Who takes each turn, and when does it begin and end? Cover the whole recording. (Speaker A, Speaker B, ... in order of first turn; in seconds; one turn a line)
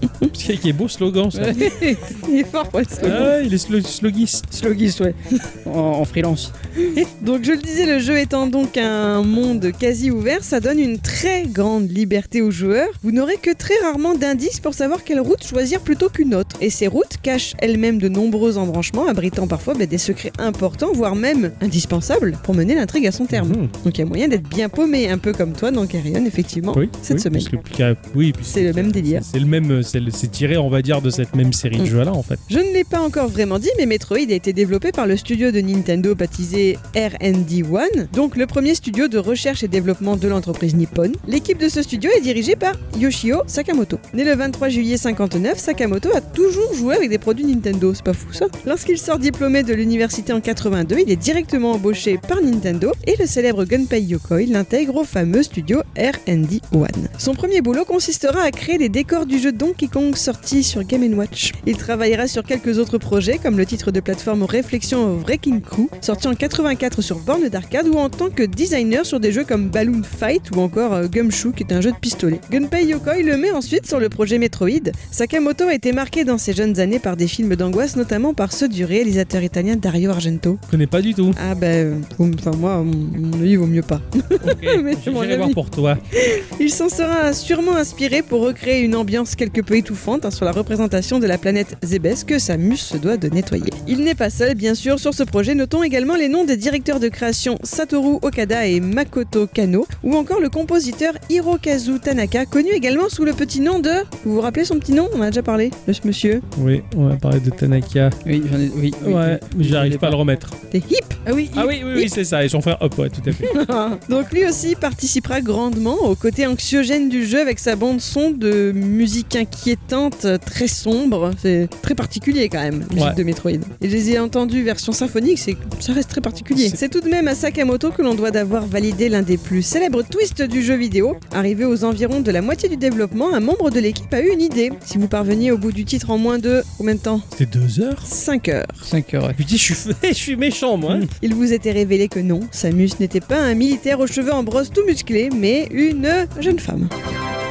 Speaker A: 0.3-1.8
Speaker B: 1.3-2.1
Speaker C: 1.9-3.3
Speaker A: 3.0-4.5
Speaker B: 4.5-6.5
Speaker C: 6.8-27.5
Speaker A: 23.3-23.7
Speaker A: 26.7-32.4
Speaker C: 28.5-29.2
Speaker C: 32.5-80.6
Speaker A: 80.7-81.4
Speaker C: 81.3-85.6
Speaker A: 84.4-86.0
Speaker C: 86.1-106.4
Speaker A: 106.5-108.2
Speaker B: 108.2-110.2
Speaker A: 109.0-110.6
Speaker C: 110.7-111.2
Speaker B: 111.2-111.7
Speaker A: 111.5-113.5
Speaker C: 113.5-137.3
Speaker A: 126.5-126.8
Speaker A: 137.3-138.1
Speaker C: 138.0-138.8
Speaker B: 138.8-139.4
Speaker A: 139.3-141.1
Speaker C: 141.2-146.9